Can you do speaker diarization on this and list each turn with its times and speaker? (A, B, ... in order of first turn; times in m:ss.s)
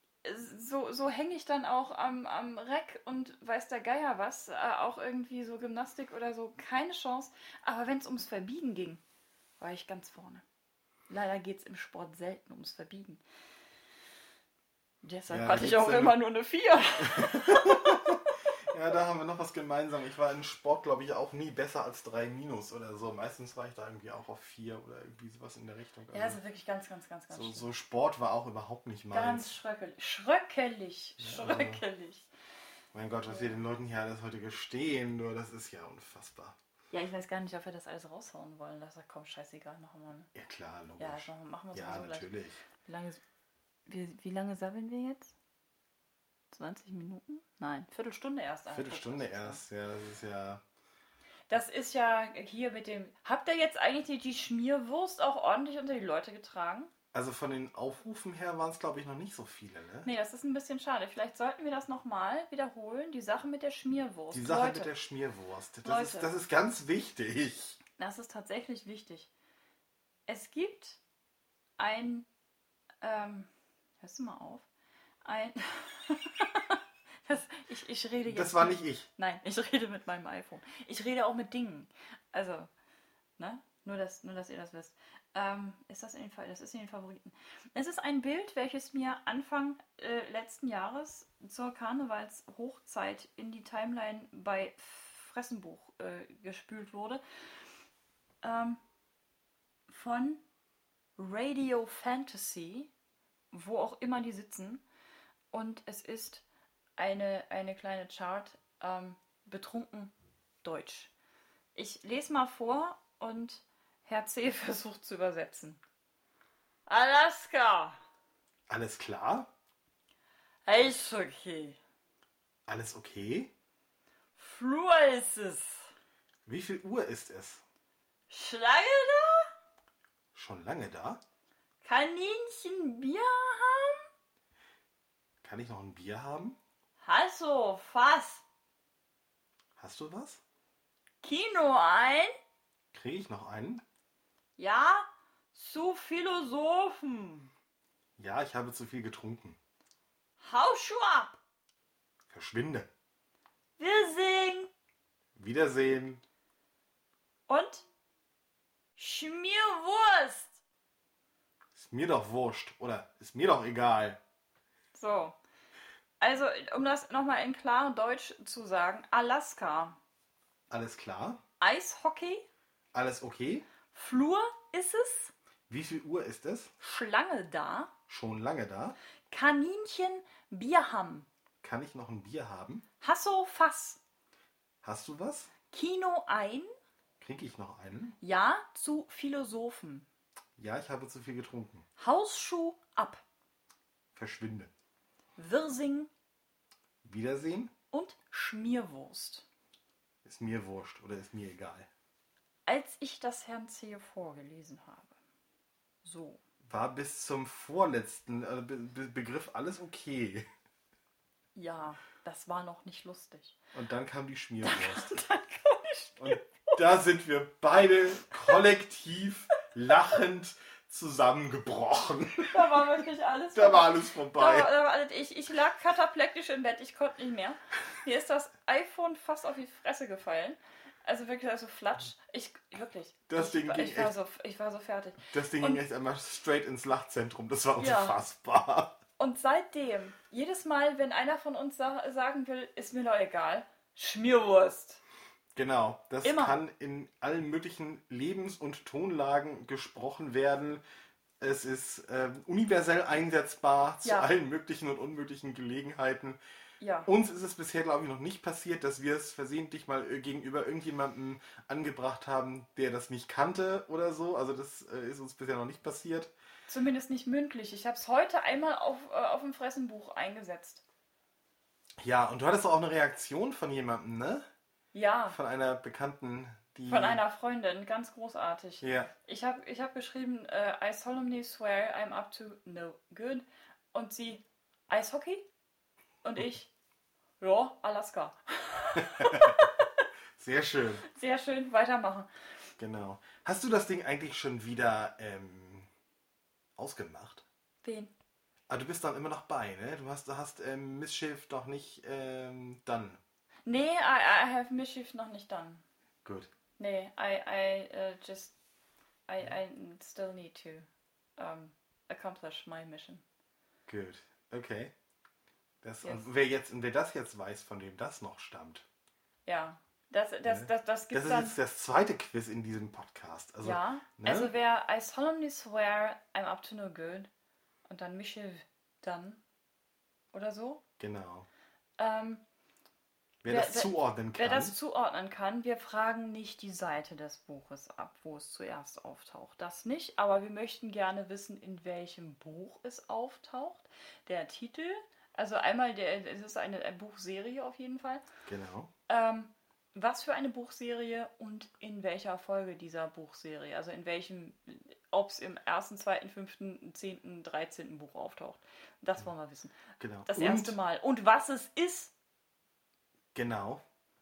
0:00.2-0:09.0 A
0:09.6-0:10.4 A
0:11.1-0:13.2 A
0:15.0-0:18.1 A
0:15.3-0:16.2 B
0:17.1-0:26.4 B
0:26.1-0:27.7 A
0:27.3-0:29.5 B
0:29.1-0:32.3 A
0:31.2-0:31.8 B
0:32.9-0:36.6 B
0:33.3-0:33.5 A
0:36.9-0:40.3 A
0:40.3-0:42.6 B
0:41.0-0:43.2 A
0:43.9-0:45.3 A
0:46.5-0:49.6 A
0:48.7-0:50.6 B
0:51.5-0:56.9 A
0:57.1-1:00.1 B
1:00.0-1:04.9 A
1:04.3-1:07.8 B
1:05.8-1:06.3 A
1:08.0-1:09.3 A
1:10.3-1:11.0 A
1:11.8-1:12.3 A
1:13.0-1:13.5 A
1:14.0-1:14.6 A
1:15.2-1:22.7 A
1:18.3-1:19.0 B
1:23.4-1:37.2 A
1:38.4-1:38.8 A
1:39.9-1:40.4 A
1:41.2-1:42.9 A
1:43.5-1:44.8 A
1:45.5-1:46.4 A
1:47.0-1:51.1 A
1:51.7-1:55.8 A
1:56.9-1:58.0 A
1:58.7-1:59.5 B
2:00.6-2:01.8 A
2:02.7-2:03.5 B
2:04.4-2:05.9 A
2:06.4-2:07.6 B
2:08.3-2:09.4 A
2:10.3-2:11.2 B
2:11.8-2:14.0 A
2:15.4-2:16.6 B
2:17.0-2:18.4 A
2:19.8-2:20.4 B
2:21.2-2:22.3 A
2:22.9-2:23.8 B
2:24.6-2:27.5 A
2:28.2-2:29.6 B
2:30.4-2:31.4 A
2:32.3-2:32.9 B
2:33.8-2:34.7 A
2:35.4-2:36.2 B
2:37.5-2:37.8 A
2:39.0-2:40.6 A
2:41.7-2:44.2 B
2:44.9-2:45.4 A
2:46.2-2:50.0 A
2:50.7-2:51.4 B
2:51.6-2:52.4 A
2:52.9-2:53.7 B
2:53.9-2:55.3 A
2:55.7-2:56.7 B
2:56.8-2:57.9 A
2:58.1-2:59.0 B
2:59.3-3:01.3 A
3:01.6-3:02.8 B
3:03.0-3:04.0 A
3:04.8-3:05.5 B
3:05.7-3:06.7 A
3:07.2-3:08.2 B
3:08.2-3:10.0 A
3:10.6-3:11.8 B
3:12.0-3:13.2 A
3:14.1-3:14.7 B
3:15.4-3:16.1 A
3:17.0-3:17.7 B
3:17.9-3:19.4 A
3:20.2-3:21.9 B
3:22.7-3:25.1 A
3:26.0-3:26.4 A
3:26.6-3:30.4 B
3:31.5-3:33.6 A
3:33.7-3:35.1 B
3:34.6-3:36.4 A
3:36.2-3:42.8 B
3:42.5-3:55.8 A
3:43.5-3:44.7 B
3:53.3-3:54.1 B
3:55.3-3:59.0 B
3:57.8-3:58.2 A
3:59.2-4:05.0 A
4:05.6-4:10.8 B
4:06.2-4:06.6 A
4:11.4-4:16.4 B
4:14.0-4:14.3 A
4:16.8-4:17.1 A
4:17.0-4:26.3 B
4:26.7-4:30.8 A
4:32.0-4:34.4 B
4:34.9-4:35.4 A
4:35.3-4:37.2 B
4:36.9-4:45.4 A
4:38.8-4:39.1 B
4:46.2-4:46.7 A
4:47.4-4:50.0 A
4:49.0-4:49.8 B
4:50.4-4:51.0 B
4:51.1-4:52.3 A
4:52.8-4:55.9 B
4:56.8-4:57.4 B
4:57.8-4:58.1 A
4:58.7-5:03.2 B
5:03.6-5:05.8 A
5:06.8-5:08.5 A
5:09.3-5:13.2 A
5:13.9-5:14.9 B
5:15.8-5:18.8 B
5:16.0-5:16.3 A
5:19.4-5:21.6 A
5:20.4-5:24.5 B
5:23.6-5:27.3 A
5:27.8-5:29.4 A
5:30.3-5:30.8 A
5:31.0-5:31.5 B
5:32.0-5:32.4 A
5:33.4-5:34.8 B
5:33.4-5:48.2 A
5:48.4-5:48.9 B
5:49.1-6:02.1 A
6:00.0-6:00.8 B
6:03.3-6:03.8 B